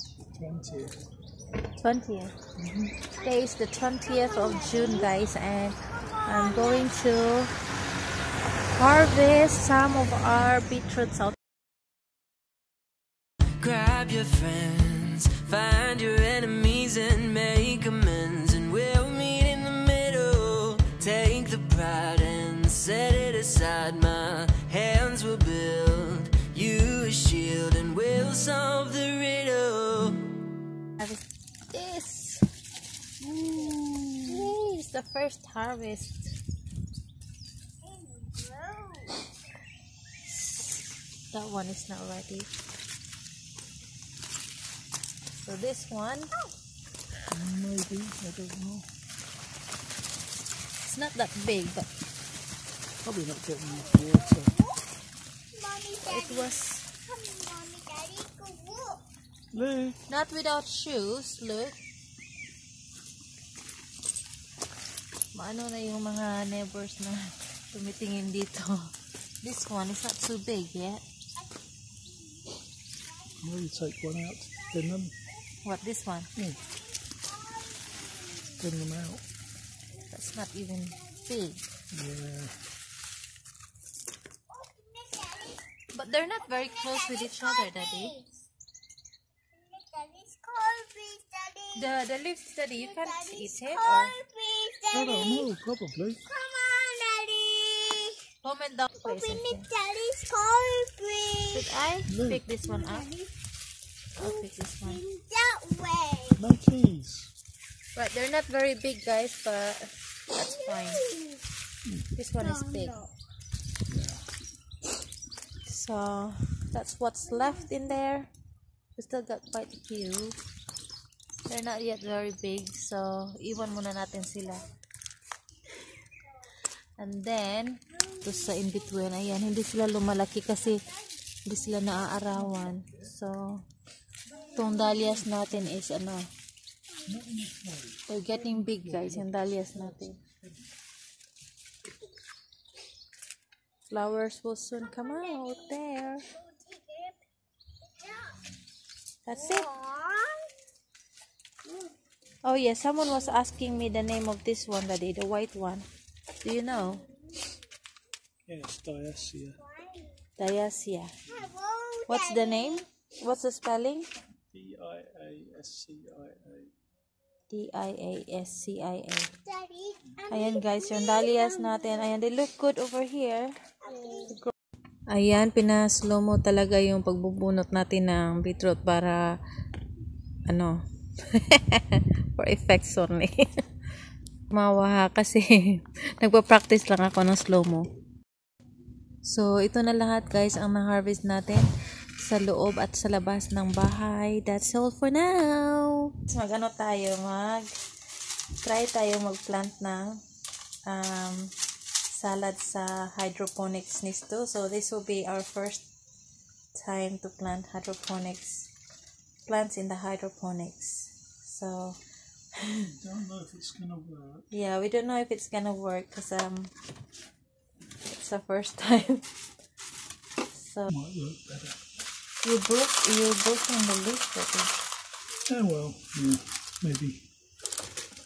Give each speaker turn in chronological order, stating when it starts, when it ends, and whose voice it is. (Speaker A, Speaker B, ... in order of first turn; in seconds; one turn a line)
Speaker A: 0.3-1.0
Speaker B: 1.8-2.3
Speaker A: 2.6-2.9
Speaker B: 3.2-7.5
Speaker C: 4.0-5.1
Speaker C: 5.9-6.9
Speaker B: 8.7-11.4
Speaker D: 13.6-30.3
Speaker B: 31.0-32.5
Speaker B: 33.2-36.3
Speaker C: 37.8-39.2
Speaker B: 40.3-42.5
Speaker B: 45.3-46.4
Speaker A: 47.3-48.9
Speaker B: 50.8-51.9
Speaker A: 53.0-54.6
Speaker C: 54.2-54.9
Speaker C: 55.5-59.0
Speaker B: 56.0-56.9
Speaker A: 59.5-60.0
Speaker B: 60.1-61.8
Speaker B: 65.3-71.0
Speaker A: 73.4-75.1
Speaker B: 75.6-76.3
Speaker A: 76.3-76.6
Speaker C: 76.7-78.6
Speaker A: 78.6-79.2
Speaker B: 80.1-81.7
Speaker A: 81.9-82.6
Speaker C: 84.5-85.6
Speaker B: 85.9-88.2
Speaker C: 86.6-88.4
Speaker C: 89.5-91.8
Speaker B: 91.7-94.2
Speaker C: 92.8-95.5
Speaker A: 94.9-96.2
Speaker C: 96.3-98.3
Speaker B: 98.4-99.7
Speaker C: 99.0-101.7
Speaker B: 101.5-103.1
Speaker A: 102.1-102.4
Speaker C: 102.7-103.3
Speaker B: 104.2-105.0
Speaker C: 104.2-106.4
Speaker A: 106.3-107.3
Speaker B: 107.9-111.1
Speaker C: 110.6-111.4
Speaker B: 112.1-113.0
Speaker C: 112.4-113.1
Speaker A: 113.9-114.2
Speaker B: 115.6-118.3
Speaker B: 119.0-120.4
Speaker B: 121.4-124.7
Speaker B: 127.0-130.8
Speaker B: 131.4-133.7
Speaker B: 134.5-136.3
Speaker A: 137.0-139.4
Speaker B: 138.1-140.2
Speaker B: 143.9-146.3
Speaker C: 145.2-145.7
Speaker C: 146.3-147.2
Speaker C: 147.9-148.4
Speaker B: 149.2-149.8
Speaker C: 149.5-150.5
Speaker B: 152.4-155.9
Speaker B: 156.4-157.1
Speaker A: 158.4-159.6
Speaker C: 159.7-160.1
Speaker B: 160.4-161.2
Speaker C: 161.3-162.7
Speaker B: 162.1-164.1
Speaker A: 164.5-166.7
Speaker B: 167.5-169.4
Speaker C: 169.4-171.8
Speaker B: 170.3-174.5
Speaker C: 173.9-174.3
Speaker B: 175.1-179.4
Speaker B: 180.5-183.6
Speaker B: 184.5-187.9
Speaker B: 189.2-191.7
Speaker B: 192.2-197.7
Speaker B: 198.6-200.2
Speaker B: 200.8-201.5
Speaker B: 202.1-205.8
Speaker B: 206.7-208.7
Speaker B: 209.4-212.0
Speaker B: 212.6-212.9
Speaker A: 212.8-214.5
Speaker B: 214.5-216.7
Speaker B: 218.0-219.3
Speaker B: 220.4-220.9
Speaker A: 220.9-221.8
Speaker B: 222.4-224.8
Speaker A: 225.4-227.3